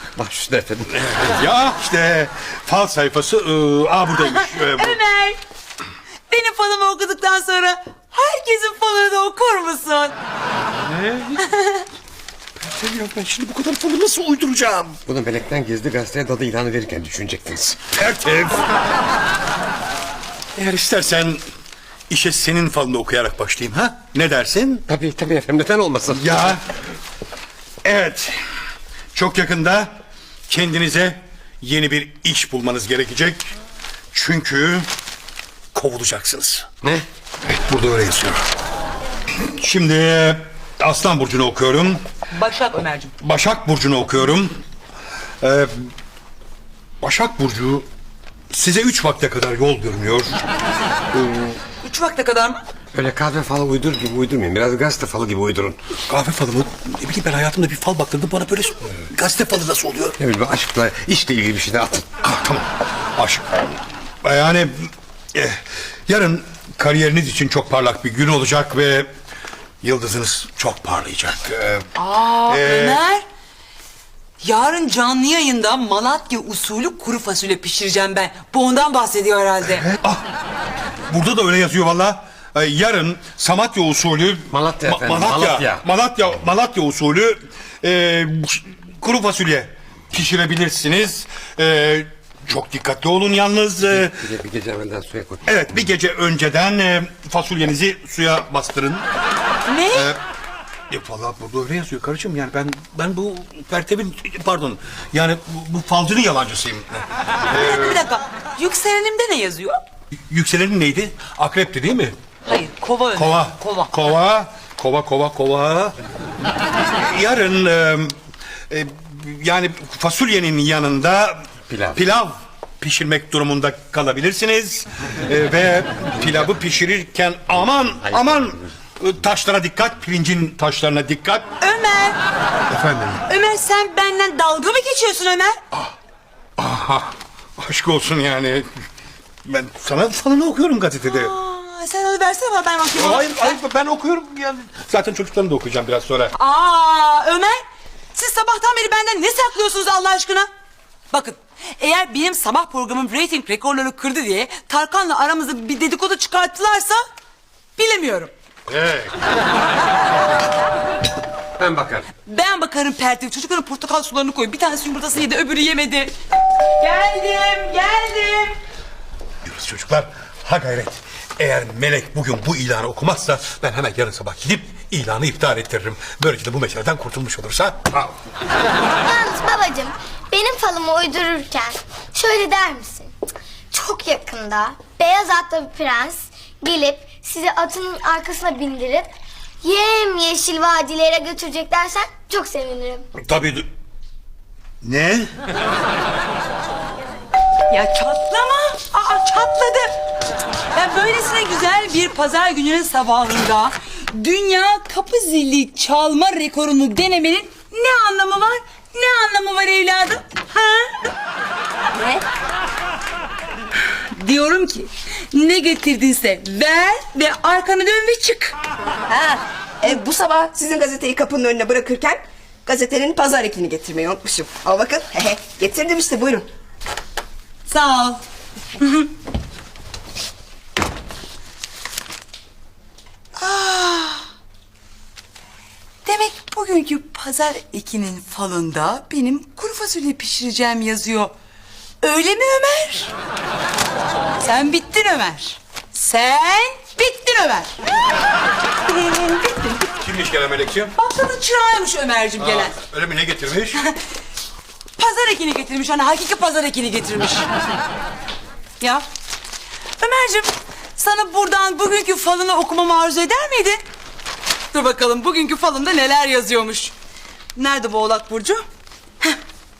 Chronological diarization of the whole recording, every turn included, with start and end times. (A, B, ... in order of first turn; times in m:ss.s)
0:00.2-0:01.0 A
0:00.9-0:05.0 B
0:04.2-0:05.4 C
0:06.3-0:10.1 C
0:10.8-0:11.4 B
0:12.6-0:15.0 B
0:15.1-0:17.9 A
0:17.9-0:18.6 B
0:20.6-0:21.4 B
0:22.1-0:24.8 B
0:24.9-0:26.4 A
0:26.1-0:26.6 B
0:27.8-0:28.3 B
0:29.1-0:29.9 B
0:30.5-0:33.4 B
0:34.1-0:34.9 B
0:35.7-0:36.6 B
0:37.4-0:38.4 B
0:39.4-0:42.0 B
0:42.3-0:43.1 C
0:43.2-0:44.5 B
0:45.4-0:45.9 B
0:47.0-0:47.8 B
0:48.5-0:50.4 B
0:51.2-0:51.5 A
0:51.8-0:52.6 C
0:52.9-0:55.8 A
0:56.1-1:00.2 B
1:00.2-1:02.1 A
1:02.2-1:02.6 B
1:03.2-1:09.1 B
1:09.8-1:11.8 B
1:12.0-1:13.2 C
1:12.5-1:13.0 B
1:14.4-1:19.8 C
1:19.9-1:20.2 B
1:21.1-1:34.2 B
1:24.5-1:25.8 A
1:33.9-1:35.5 A
1:35.4-1:39.1 B
1:39.6-1:40.1 C
1:39.9-1:40.2 B
1:40.9-1:48.0 B
1:47.5-1:49.8 C
1:50.3-1:52.2 B
1:52.4-1:53.9 C
1:53.1-1:55.9 B
1:57.0-1:58.1 B
1:58.7-2:11.4 B
2:01.7-2:02.0 A
2:11.6-2:12.2 C
2:12.7-2:13.2 B
2:13.3-2:15.6 C
2:16.6-2:18.7 B
2:19.4-2:21.3 B
2:21.0-2:23.6 C
2:22.9-2:26.3 B
2:26.3-2:27.6 C
2:28.1-2:30.5 C
2:31.1-2:37.0 C
2:37.8-2:38.3 C
2:38.7-2:39.2 B
2:41.6-2:42.1 A
2:42.2-2:46.1 C
2:46.7-2:48.6 C
2:49.4-2:58.2 B
2:59.0-3:03.1 D
3:03.7-3:09.1 D
3:09.6-3:13.0 D
3:13.2-3:13.7 B
3:14.8-3:15.3 B
3:17.7-3:19.9 C
3:20.7-3:30.9 C
3:34.1-3:38.5 C
3:39.1-3:46.5 E
3:47.6-3:48.2 C
3:48.8-3:49.1 C
3:53.4-3:54.2 C
3:56.0-4:01.3 C
4:02.0-4:03.1 C
4:04.4-4:07.7 C
4:08.9-4:09.8 C
4:10.0-4:10.9 B
4:10.9-4:12.7 C
4:12.4-4:13.8 B
4:15.0-4:17.5 C
4:18.8-4:19.0 C
4:20.0-4:23.8 C
4:24.7-4:26.9 C
4:27.6-4:28.6 C